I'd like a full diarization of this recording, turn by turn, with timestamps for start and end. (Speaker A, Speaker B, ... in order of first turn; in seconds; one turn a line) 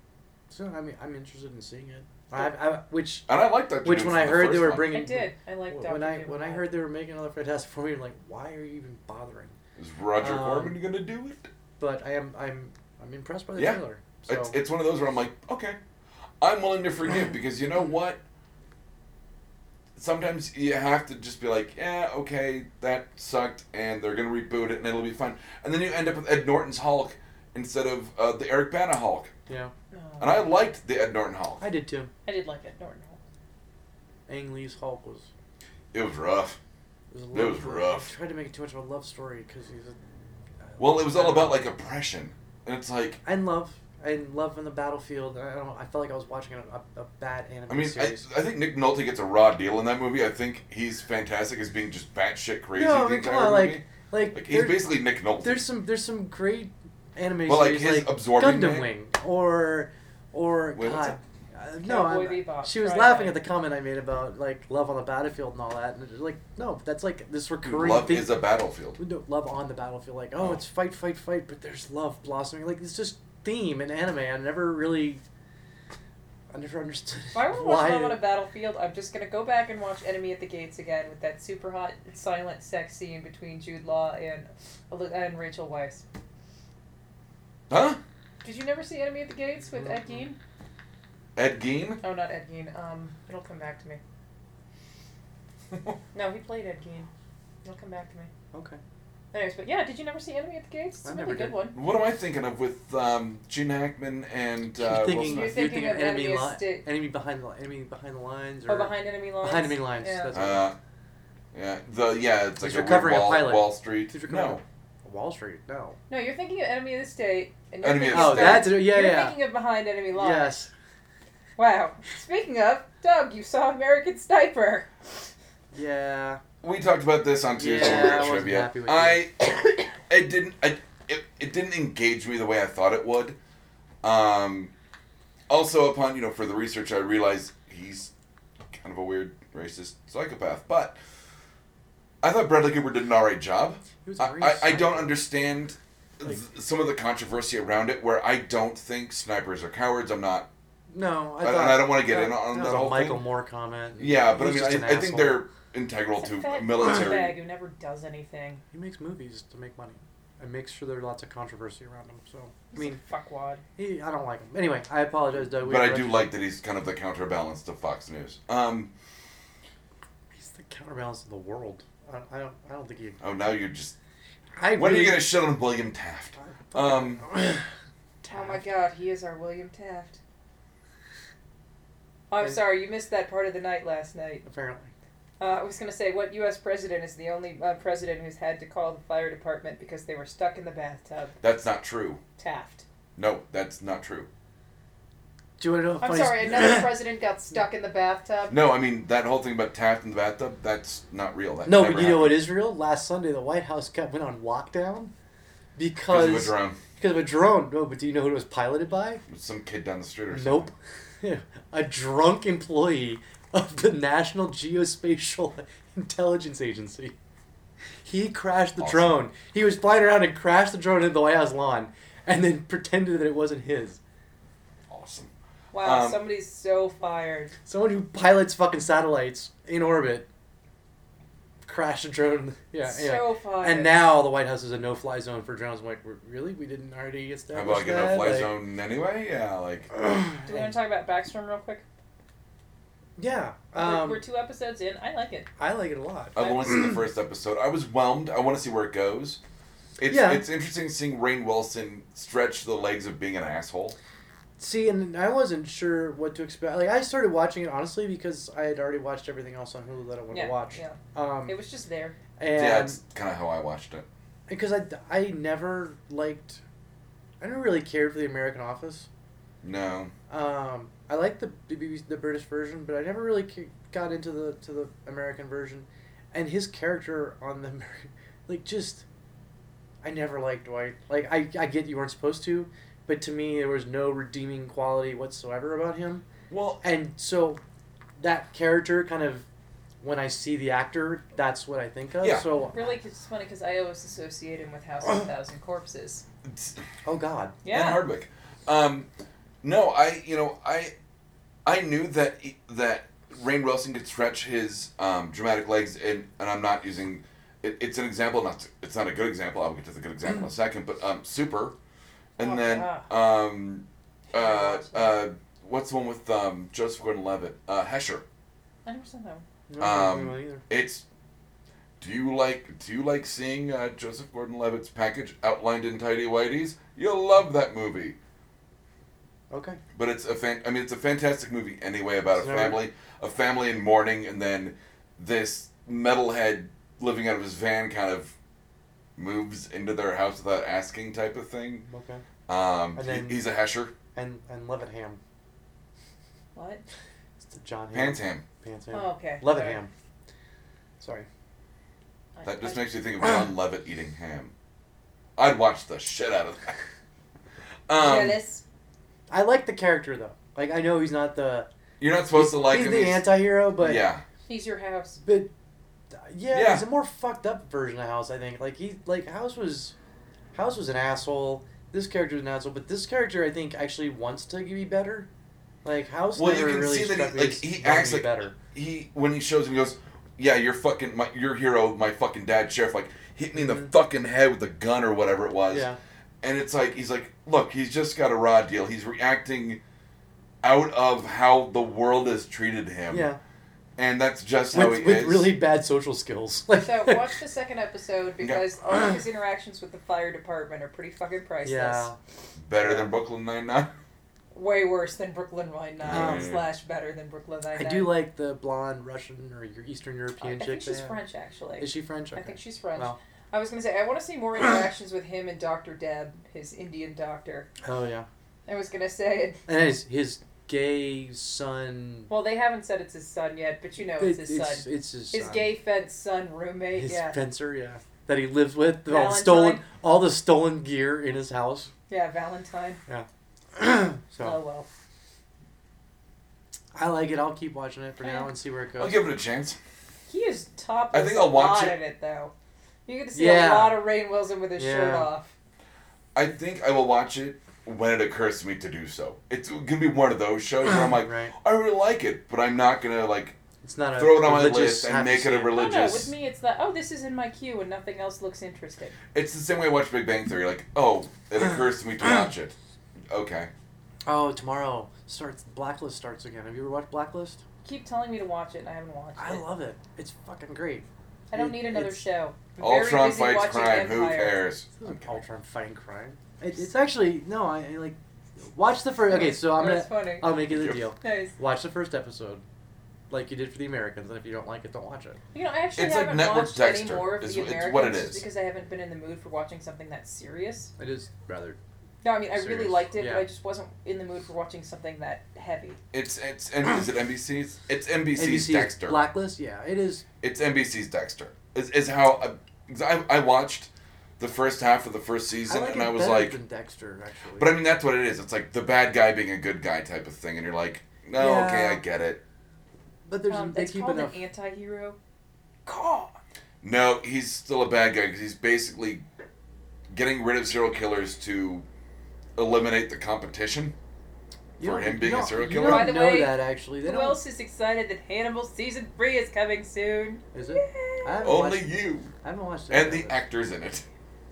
Speaker A: 0.5-3.3
Speaker B: 3.3-5.0
Speaker A: 3.8-9.6
Speaker C: 4.9-6.7
Speaker B: 9.8-11.5
Speaker A: 10.2-10.8
Speaker A: 11.8-14.6
Speaker B: 13.6-15.8
Speaker B: 16.4-18.2
Speaker B: 20.0-29.3
Speaker A: 29.5-29.7
Speaker C: 29.9-30.4
Speaker B: 30.2-31.6
Speaker A: 31.6-32.1
Speaker C: 32.3-33.2
Speaker A: 34.3-35.3
Speaker B: 35.9-36.6
Speaker A: 37.1-40.0
Speaker B: 37.3-38.1
Speaker A: 40.6-41.7
Speaker B: 40.8-43.2
Speaker A: 43.2-48.2
Speaker B: 47.7-55.6
Speaker A: 52.7-68.3
Speaker B: 57.5-58.9
Speaker B: 60.8-61.2
Speaker C: 61.8-63.4
Speaker B: 67.6-69.0
Speaker A: 69.0-75.2
Speaker B: 70.4-70.6
Speaker A: 76.5-78.2
Speaker C: 77.3-86.0
Speaker B: 87.7-88.0
Speaker C: 88.4-90.4
Speaker A: 89.7-90.2
Speaker B: 91.4-92.0
Speaker C: 92.0-94.0
Speaker B: 95.7-96.0
Speaker C: 96.1-97.1
Speaker C: 97.6-98.3
Speaker A: 98.5-98.8
Speaker C: 99.3-101.8
Speaker A: 101.0-101.6
Speaker B: 101.8-105.5
Speaker A: 104.8-110.7
Speaker C: 105.2-106.9
Speaker C: 108.7-110.3
Speaker B: 110.3-110.8
Speaker B: 111.5-114.6
Speaker A: 112.6-116.0
Speaker C: 116.1-120.5
Speaker B: 117.8-118.8
Speaker A: 118.1-119.4
Speaker A: 120.1-120.7
Speaker C: 121.6-124.9
Speaker A: 125.7-126.4
Speaker B: 126.6-133.4
Speaker A: 127.5-129.2
Speaker B: 134.0-134.7
Speaker B: 135.5-138.1
Speaker B: 138.7-141.0
Speaker B: 142.2-150.5
Speaker A: 144.0-145.2
Speaker A: 150.9-155.4
Speaker B: 151.4-153.2
Speaker B: 154.0-157.4
Speaker C: 156.2-158.6
Speaker A: 158.7-163.0
Speaker C: 162.7-163.6
Speaker A: 163.8-166.3
Speaker B: 165.6-168.9
Speaker A: 170.3-173.2
Speaker B: 173.2-173.9
Speaker A: 174.6-175.3
Speaker B: 174.8-177.2
Speaker A: 176.4-177.7
Speaker A: 178.2-178.6
Speaker C: 178.2-180.2
Speaker C: 182.3-184.4
Speaker A: 184.4-184.9
Speaker C: 185.4-191.3
Speaker B: 191.4-192.2
Speaker C: 192.4-192.8
Speaker B: 193.2-194.3
Speaker A: 195.6-197.0
Speaker C: 196.0-198.6
Speaker B: 198.5-202.5
Speaker A: 201.7-205.1
Speaker A: 205.8-209.2
Speaker B: 206.1-206.8
Speaker B: 209.3-210.7
Speaker A: 210.3-210.7
Speaker A: 211.2-217.1
Speaker A: 218.0-224.0
Speaker B: 218.8-219.2
Speaker B: 224.9-226.2
Speaker C: 225.7-227.5
Speaker A: 227.7-230.3
Speaker A: 231.7-238.6
Speaker C: 232.8-234.0
Speaker B: 237.5-239.9
Speaker A: 239.9-240.8
Speaker C: 240.5-241.8
Speaker A: 243.2-244.2
Speaker C: 243.8-245.5
Speaker A: 245.6-247.0
Speaker B: 246.3-249.4
Speaker B: 250.0-254.0
Speaker A: 250.1-250.4
Speaker A: 254.6-261.6
Speaker C: 260.3-262.2
Speaker A: 262.4-263.0
Speaker B: 262.5-264.1
Speaker A: 264.5-266.6
Speaker A: 267.4-269.1
Speaker B: 269.6-270.1
Speaker A: 270.3-279.1
Speaker A: 280.0-286.3
Speaker B: 286.5-286.8
Speaker A: 286.8-287.6
Speaker A: 288.2-289.4
Speaker A: 290.0-292.9
Speaker B: 292.2-292.5
Speaker C: 292.7-296.2
Speaker B: 296.4-296.8
Speaker A: 297.1-297.6
Speaker C: 297.6-298.0
Speaker B: 297.7-299.1
Speaker B: 299.6-300.9
Speaker B: 301.6-311.8
Speaker C: 312.4-313.1
Speaker B: 312.4-318.2
Speaker C: 314.3-315.2
Speaker C: 318.9-319.4
Speaker A: 319.7-320.6
Speaker B: 319.8-321.1
Speaker B: 322.0-328.2
Speaker A: 329.5-329.8
Speaker B: 329.9-338.3
Speaker A: 332.3-332.8
Speaker B: 339.2-341.9
Speaker A: 341.9-342.2
Speaker B: 342.5-343.9
Speaker A: 342.9-343.4
Speaker A: 344.1-345.2
Speaker C: 346.6-346.8
Speaker A: 347.4-349.9
Speaker B: 347.9-348.4
Speaker C: 348.9-349.8
Speaker A: 351.0-351.3
Speaker C: 352.4-352.9
Speaker B: 352.5-354.5
Speaker B: 355.4-356.8
Speaker B: 357.9-358.4
Speaker C: 358.0-358.6
Speaker A: 359.3-361.7
Speaker B: 362.0-364.2
Speaker A: 362.3-364.1
Speaker C: 364.5-365.2
Speaker A: 365.2-365.5
Speaker A: 366.2-369.9
Speaker B: 366.5-366.9
Speaker A: 370.5-375.3
Speaker A: 375.8-378.6
Speaker B: 376.4-385.9
Speaker A: 385.7-386.0
Speaker B: 386.4-389.8
Speaker B: 390.6-393.3
Speaker A: 393.1-393.4
Speaker B: 394.0-395.6
Speaker A: 394.7-397.3
Speaker C: 396.8-402.1
Speaker A: 401.6-402.2
Speaker B: 402.6-403.9
Speaker A: 402.8-403.1
Speaker C: 404.5-408.1
Speaker B: 406.0-406.6
Speaker A: 406.1-406.6
Speaker A: 407.8-411.2
Speaker C: 410.4-417.7
Speaker A: 411.8-413.2
Speaker A: 417.8-418.3
Speaker C: 418.7-419.6
Speaker A: 419.7-422.3
Speaker C: 422.3-427.4
Speaker A: 424.2-425.7
Speaker A: 426.9-431.9
Speaker C: 429.1-429.8
Speaker C: 432.1-433.0
Speaker A: 433.1-434.6
Speaker C: 434.4-434.9
Speaker A: 436.9-439.2
Speaker C: 438.2-438.5
Speaker B: 439.0-439.8
Speaker C: 440.3-442.5
Speaker B: 441.1-442.0
Speaker C: 443.1-445.5
Speaker A: 443.3-444.1
Speaker A: 444.8-445.3
Speaker B: 446.4-453.6
Speaker A: 451.1-451.5
Speaker A: 453.8-455.9
Speaker B: 454.2-456.3
Speaker C: 455.7-459.1
Speaker B: 459.3-462.8
Speaker B: 463.3-463.7
Speaker A: 464.3-467.6
Speaker C: 467.8-469.6
Speaker A: 469.4-472.2
Speaker C: 471.5-474.6
Speaker B: 472.8-475.4
Speaker A: 475.0-482.6
Speaker C: 479.3-480.6
Speaker B: 480.7-481.0
Speaker C: 481.2-481.6
Speaker A: 483.3-485.4
Speaker C: 485.5-490.9
Speaker B: 486.0-488.4
Speaker A: 491.0-491.8
Speaker C: 492.2-496.0
Speaker A: 492.5-493.4
Speaker B: 496.1-499.3
Speaker A: 498.4-500.2
Speaker B: 500.4-506.6
Speaker A: 505.7-507.8
Speaker B: 507.6-512.4
Speaker A: 511.3-512.0
Speaker A: 513.3-514.4
Speaker C: 513.5-515.2
Speaker C: 515.9-516.4
Speaker B: 516.8-519.2
Speaker B: 520.1-521.9
Speaker B: 522.6-524.0
Speaker A: 524.8-527.4
Speaker B: 524.8-526.1
Speaker C: 525.8-531.4
Speaker A: 530.5-533.4
Speaker B: 531.4-532.3
Speaker B: 532.9-534.0